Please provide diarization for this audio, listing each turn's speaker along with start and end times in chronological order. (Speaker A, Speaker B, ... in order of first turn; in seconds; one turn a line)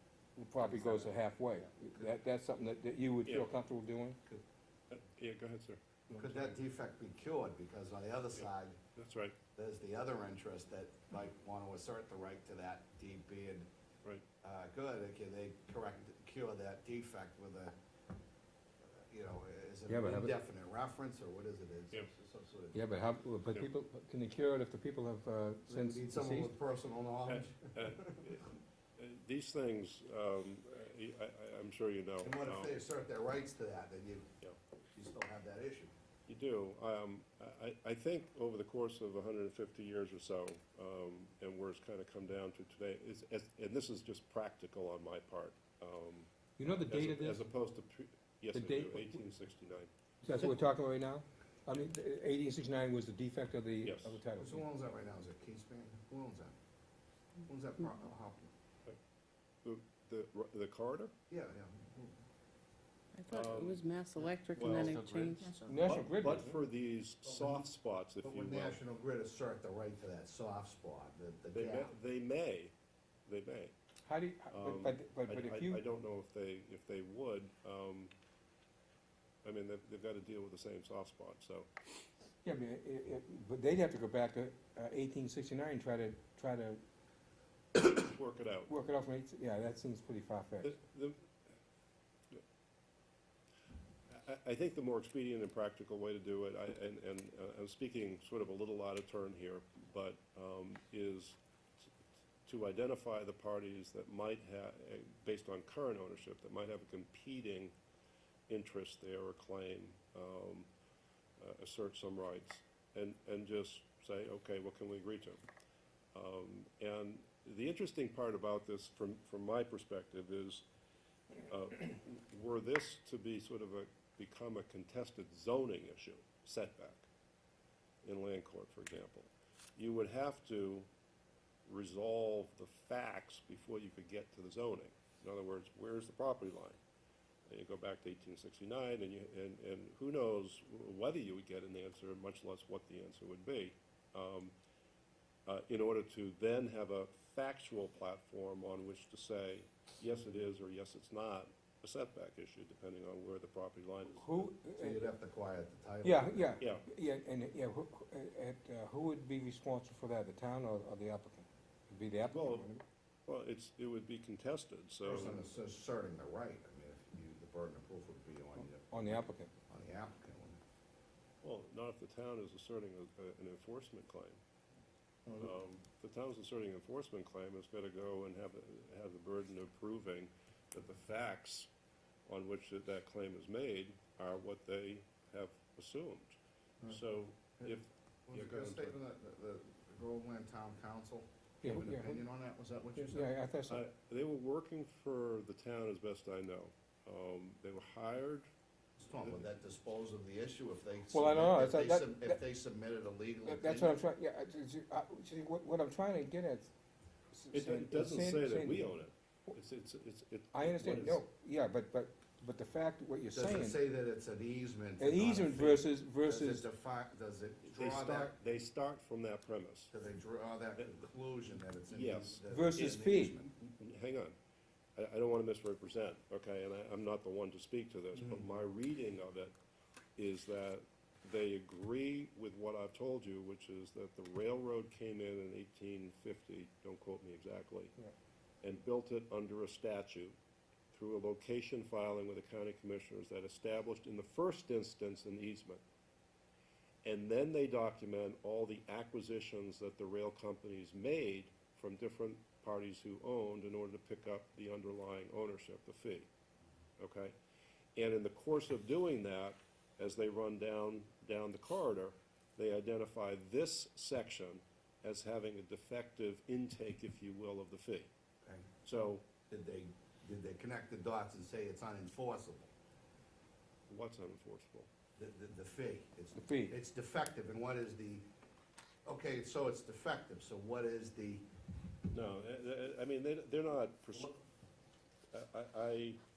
Speaker A: 0.4-4.2
Speaker B: 0.6-1.1
Speaker C: 3.3-3.5
Speaker C: 4.9-5.8
Speaker A: 6.1-6.5
Speaker B: 6.1-8.8
Speaker C: 8.4-9.4
Speaker B: 9.6-13.7
Speaker B: 14.4-17.8
Speaker B: 18.9-22.8
Speaker A: 19.9-20.4
Speaker A: 22.7-26.5
Speaker B: 25.7-28.3
Speaker C: 27.3-32.8
Speaker B: 32.2-34.3
Speaker B: 34.9-35.9
Speaker C: 36.3-49.9
Speaker A: 46.6-47.4
Speaker A: 48.5-49.2
Speaker A: 50.2-54.6
Speaker C: 53.8-54.2
Speaker B: 54.4-56.5
Speaker B: 57.5-58.5
Speaker C: 59.6-61.1
Speaker B: 61.3-62.2
Speaker D: 63.1-65.7
Speaker C: 63.3-63.8
Speaker C: 64.5-68.8
Speaker A: 65.7-66.6
Speaker B: 67.2-67.7
Speaker B: 68.2-71.9
Speaker C: 71.5-72.7
Speaker C: 73.3-73.8
Speaker A: 74.1-75.8
Speaker C: 74.5-78.1
Speaker C: 79.4-81.7
Speaker A: 82.5-86.8
Speaker C: 87.8-88.7
Speaker A: 88.7-90.8
Speaker C: 90.6-91.3
Speaker C: 94.1-101.8
Speaker C: 102.5-107.8
Speaker C: 108.5-110.7
Speaker C: 111.4-115.4
Speaker C: 116.1-120.6
Speaker C: 121.5-127.1
Speaker C: 128.0-130.9
Speaker C: 131.7-136.8
Speaker C: 137.5-144.5
Speaker C: 145.5-154.5
Speaker A: 154.2-155.1
Speaker B: 154.8-156.6
Speaker A: 156.0-162.8
Speaker C: 156.6-156.9
Speaker C: 162.3-162.7
Speaker C: 163.3-165.4
Speaker B: 165.0-170.6
Speaker A: 168.9-169.5
Speaker C: 171.4-174.4
Speaker B: 175.3-175.5
Speaker C: 175.4-181.7
Speaker C: 182.3-186.3
Speaker C: 186.9-188.9
Speaker B: 188.3-193.3
Speaker A: 191.6-192.2
Speaker A: 193.0-193.8
Speaker C: 193.7-198.5
Speaker B: 199.0-204.0
Speaker A: 201.1-202.4
Speaker A: 203.5-206.7
Speaker A: 207.3-208.9
Speaker C: 207.5-211.2
Speaker A: 210.5-213.8
Speaker B: 213.3-218.3
Speaker A: 215.0-216.7
Speaker C: 217.7-219.9
Speaker B: 219.9-223.5
Speaker C: 221.9-224.4
Speaker A: 222.5-223.4
Speaker C: 225.0-229.5
Speaker B: 228.2-228.5
Speaker C: 230.2-237.9
Speaker C: 238.6-240.4
Speaker C: 240.9-245.8
Speaker C: 247.0-256.3
Speaker C: 257.0-257.3
Speaker C: 258.0-268.1
Speaker B: 268.4-268.7
Speaker C: 268.8-269.3
Speaker B: 269.5-272.7
Speaker C: 273.9-274.9
Speaker B: 275.2-278.2
Speaker A: 276.4-276.8
Speaker B: 279.1-281.4
Speaker C: 282.1-284.4
Speaker C: 285.3-286.2